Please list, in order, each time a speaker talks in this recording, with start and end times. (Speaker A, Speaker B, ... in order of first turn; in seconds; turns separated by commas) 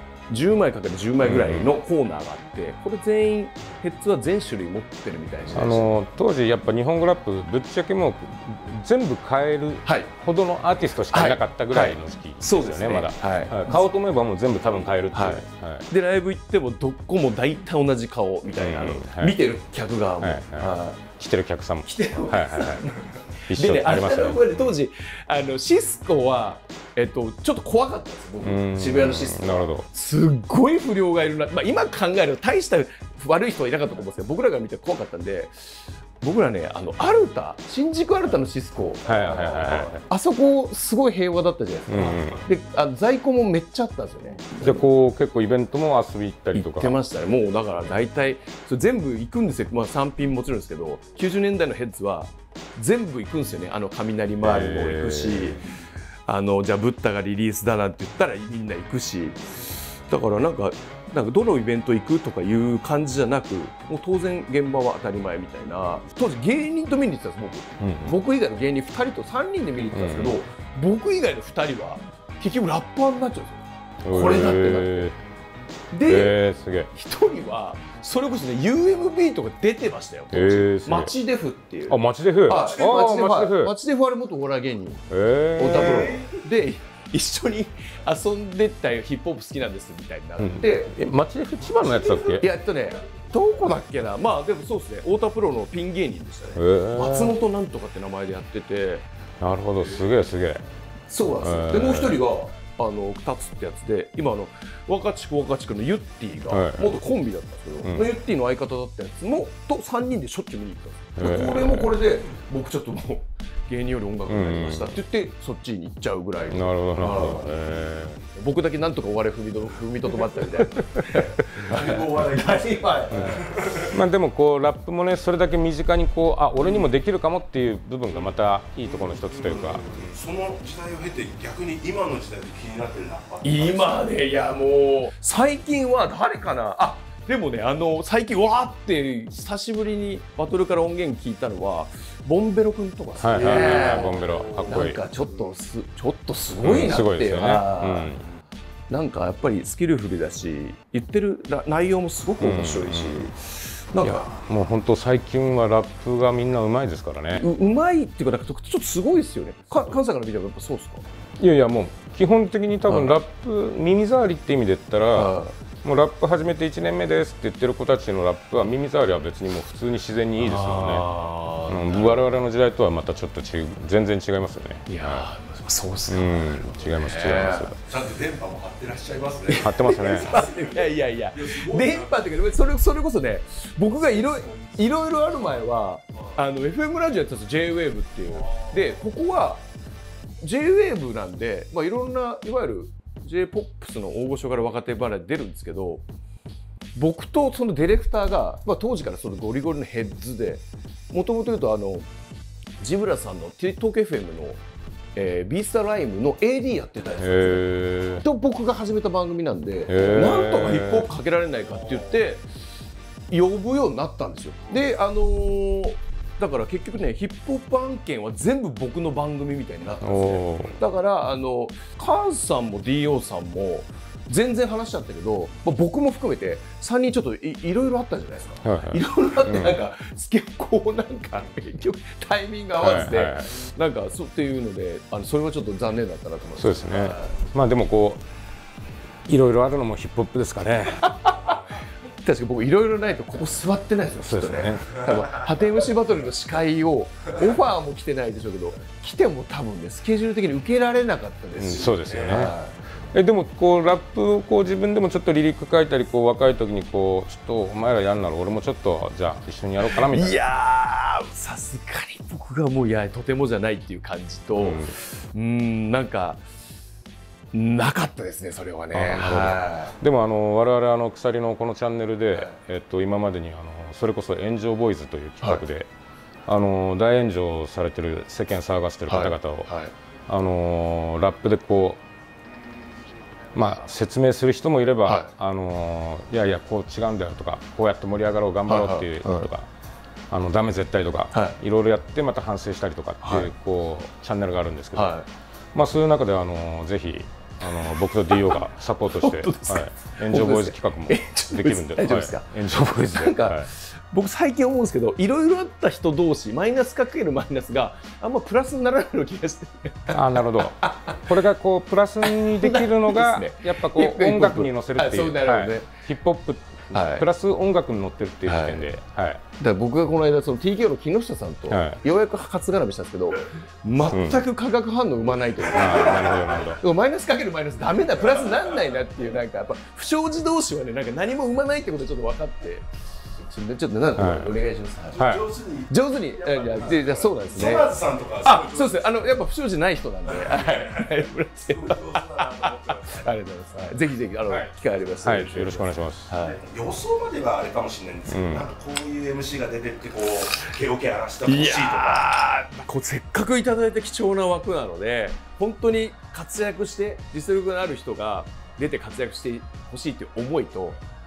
Speaker A: 0.3-5.9, Speaker B: 1.2-1.7, Speaker B: 5.5-15.8, Speaker A: 9.8-10.1, Speaker A: 11.1-13.9, Speaker A: 15.1-21.0, Speaker B: 18.5-19.4, Speaker B: 20.2-22.9, Speaker A: 21.8-44.9, Speaker B: 23.5-24.7, Speaker B: 28.4-29.9, Speaker B: 39.0-40.0, Speaker B: 41.9-42.4, Speaker B: 44.6-46.9, Speaker A: 46.5-55.6, Speaker B: 54.4-55.6, Speaker A: 56.3-75.1, Speaker B: 67.8-68.2, Speaker B: 69.9-70.4, Speaker B: 74.0-75.2, Speaker A: 75.9-76.4, Speaker B: 76.1-76.9, Speaker A: 76.9-85.0, Speaker B: 80.3-81.1, Speaker B: 81.9-83.7, Speaker B: 85.1-86.2, Speaker A: 85.6-90.9, Speaker C: 85.7-86.3, Speaker B: 90.4-92.5, Speaker A: 92.3-99.0, Speaker B: 96.5-97.3, Speaker B: 99.4-100.6, Speaker A: 101.1-117.5, Speaker B: 101.4-102.2, Speaker B: 106.5-107.0, Speaker B: 107.8-108.1, Speaker B: 111.2-111.9, Speaker B: 114.3-115.0, Speaker B: 116.5-118.2, Speaker A: 118.3-123.7, Speaker C: 121.7-123.9, Speaker B: 123.1-130.0, Speaker C: 128.9-134.1, Speaker A: 133.4-148.2, Speaker B: 143.2-145.0, Speaker C: 143.4-144.4, Speaker B: 146.6-148.2, Speaker A: 148.9-154.3, Speaker B: 152.4-153.3, Speaker B: 154.0-157.5, Speaker A: 157.3-161.0, Speaker B: 161.4-171.1, Speaker A: 162.9-163.2, Speaker A: 165.1-165.5, Speaker A: 170.4-172.3, Speaker B: 171.7-175.3, Speaker A: 174.9-177.7, Speaker B: 176.1-177.9, Speaker C: 178.1-182.4, Speaker A: 179.5-189.6, Speaker B: 179.6-180.4, Speaker A: 190.4-196.0, Speaker A: 196.9-202.1, Speaker A: 202.8-204.6, Speaker A: 205.1-212.4, Speaker B: 207.2-208.2, Speaker B: 209.9-211.1, Speaker A: 213.3-237.3, Speaker B: 220.0-220.8, Speaker B: 228.6-229.8, Speaker B: 232.8-233.5, Speaker B: 236.6-238.2, Speaker B: 239.3-241.1, Speaker A: 241.1-241.6, Speaker A: 242.2-252.7, Speaker B: 244.2-245.0, Speaker B: 251.6-252.6, Speaker C: 252.1-252.3, Speaker B: 253.1-260.4, Speaker A: 259.8-266.4, Speaker B: 264.6-264.9, Speaker A: 267.5-269.9, Speaker B: 268.9-275.9, Speaker B: 276.4-279.7, Speaker A: 279.1-279.9, Speaker B: 280.3-282.0, Speaker B: 283.5-289.7, Speaker A: 285.0-285.3, Speaker A: 288.7-289.5, Speaker B: 290.3-295.1, Speaker A: 291.3-291.6, Speaker A: 293.2-293.5, Speaker A: 294.9-295.3, Speaker B: 295.7-303.7, Speaker A: 297.7-311.2, Speaker B: 310.1-319.4, Speaker A: 312.2-315.9, Speaker A: 316.9-317.2, Speaker A: 318.4-318.9, Speaker A: 319.6-335.2, Speaker B: 321.7-322.0, Speaker B: 324.1-324.4, Speaker B: 325.6-326.8, Speaker B: 334.1-334.5, Speaker C: 335.2-339.0, Speaker B: 335.2-335.4, Speaker A: 335.9-337.9, Speaker A: 338.4-346.6, Speaker C: 340.5-341.1, Speaker C: 341.7-343.3, Speaker B: 344.5-346.3, Speaker C: 346.5-352.3, Speaker B: 348.3-348.7, Speaker A: 351.4-361.0